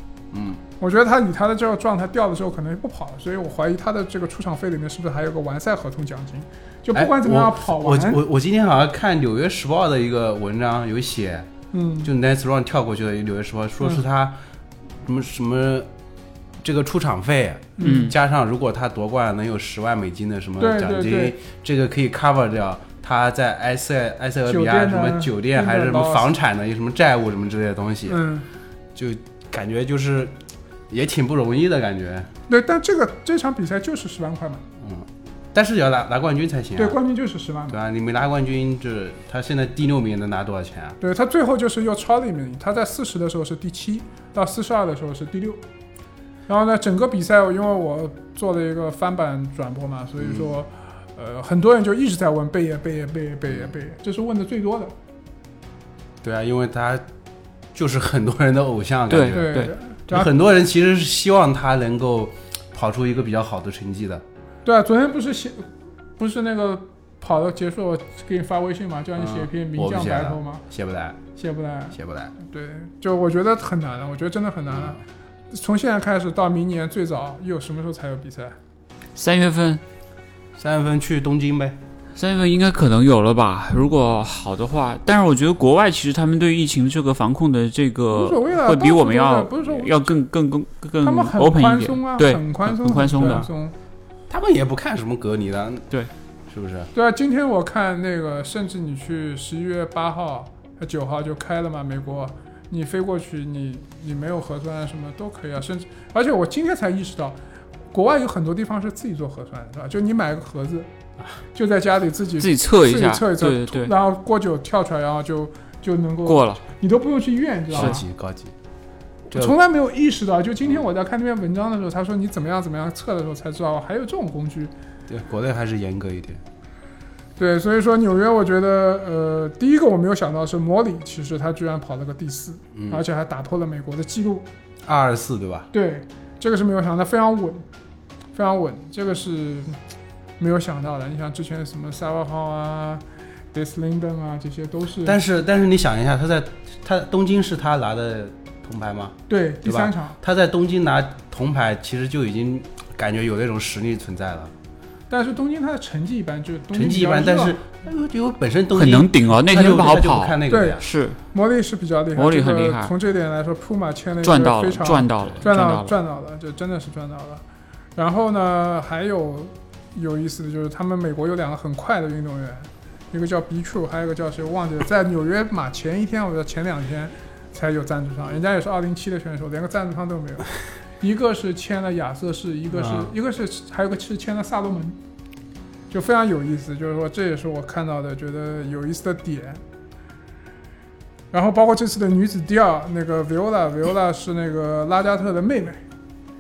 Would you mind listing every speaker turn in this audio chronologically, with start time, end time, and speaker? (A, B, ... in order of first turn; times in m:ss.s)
0:00.3-0:00.6 A
0:00.8-0:08.2 B
0:06.9-0:11.5 A
0:11.7-0:12.1 B
0:12.0-0:14.4 A
0:15.0-0:15.9 A
0:16.6-0:28.2 A
0:17.8-0:18.1 B
0:17.8-0:18.2 C
0:20.6-0:21.4 B
0:24.5-0:26.3 B
0:28.1-0:28.5 B
0:29.0-0:30.3 A
0:30.9-0:32.3 A
0:32.5-0:34.6 B
0:34.8-0:37.0 A
0:36.8-0:37.8 B
0:37.7-0:41.0 A
0:41.0-0:45.6 B
0:46.5-0:54.9 B
0:50.2-0:50.5 A
0:56.2-0:57.0 A
0:57.7-0:59.6 A
0:59.1-0:59.7 C
0:59.3-1:00.3 B
1:00.1-1:04.2 A
1:04.6-1:05.7 B
1:06.2-1:10.6 B
1:09.2-1:11.2 A
1:11.4-1:15.0 B
1:12.0-1:12.3 A
1:14.7-1:15.0 A
1:15.5-1:18.6 B
1:19.2-1:19.8 C
1:20.6-1:21.8 A
1:22.2-1:33.5 C
1:28.1-1:30.1 B
1:31.0-1:33.7 B
1:34.3-1:35.9 A
1:36.5-1:36.9 A
1:36.9-1:47.4 B
1:47.9-1:50.9 B
1:51.5-1:58.0 B
1:52.4-1:53.9 C
1:56.3-1:56.6 C
1:57.7-1:58.5 A
1:59.3-2:04.7 B
2:05.1-2:06.4 A
2:07.4-2:14.5 B
2:12.7-2:13.0 A
2:14.8-2:15.7 A
2:15.7-2:17.6 B
2:18.3-2:19.8 B
2:20.4-2:25.2 B
2:25.0-2:34.5 A
2:29.3-2:30.2 B
2:35.1-2:37.6 B
2:36.7-2:40.8 A
2:38.7-2:41.2 C
2:40.5-2:40.8 B
2:41.3-2:47.4 B
2:42.2-2:42.9 C
2:44.2-2:45.9 C
2:48.0-3:05.0 B
3:02.7-3:03.1 A
3:05.9-3:09.6 B
3:11.3-3:15.8 B